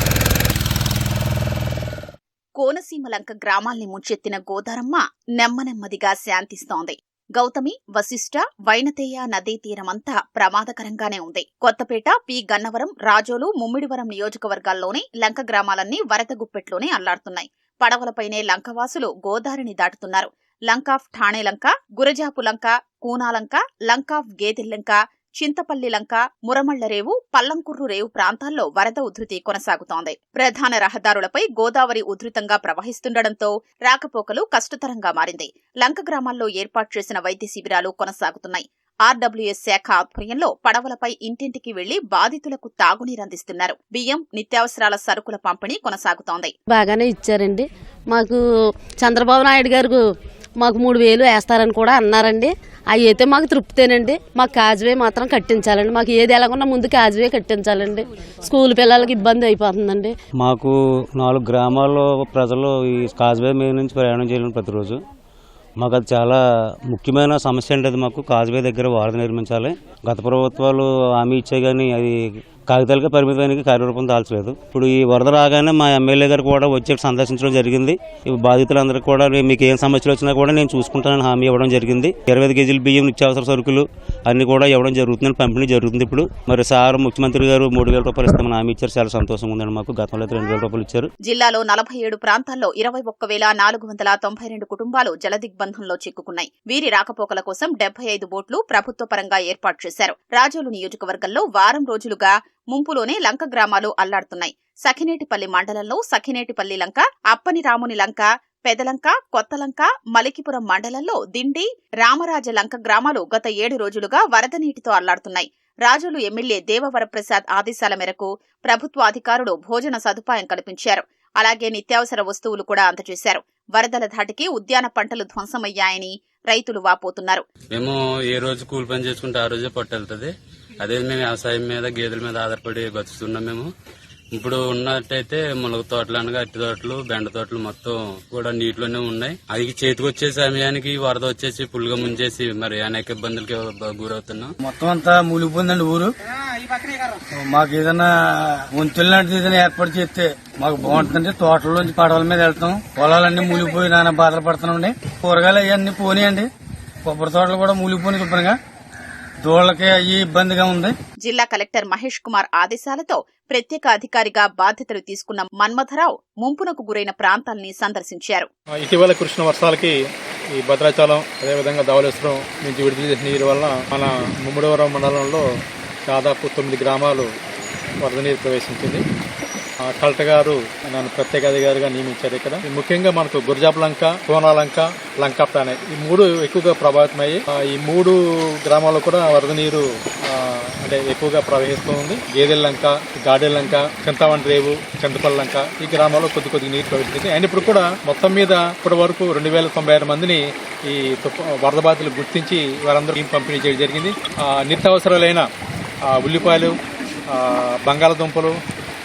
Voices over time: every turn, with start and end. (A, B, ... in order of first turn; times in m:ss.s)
0:02.6-0:46.5 A
0:46.7-0:48.4 B
0:49.0-0:50.0 B
0:50.6-1:00.1 B
1:00.4-1:05.0 C
1:05.8-1:31.1 C
1:31.2-2:07.4 A
2:07.7-2:13.7 D
2:14.3-2:24.5 D
2:24.6-2:26.1 E
2:27.3-2:36.5 E
2:37.0-2:38.6 E
2:39.4-2:40.9 E
2:41.2-2:48.5 A
2:48.8-2:49.9 F
2:50.6-2:55.4 F
2:56.1-2:57.3 F
2:58.0-2:59.0 F
2:59.9-3:25.4 F
3:26.1-3:26.8 F
3:27.3-3:28.6 F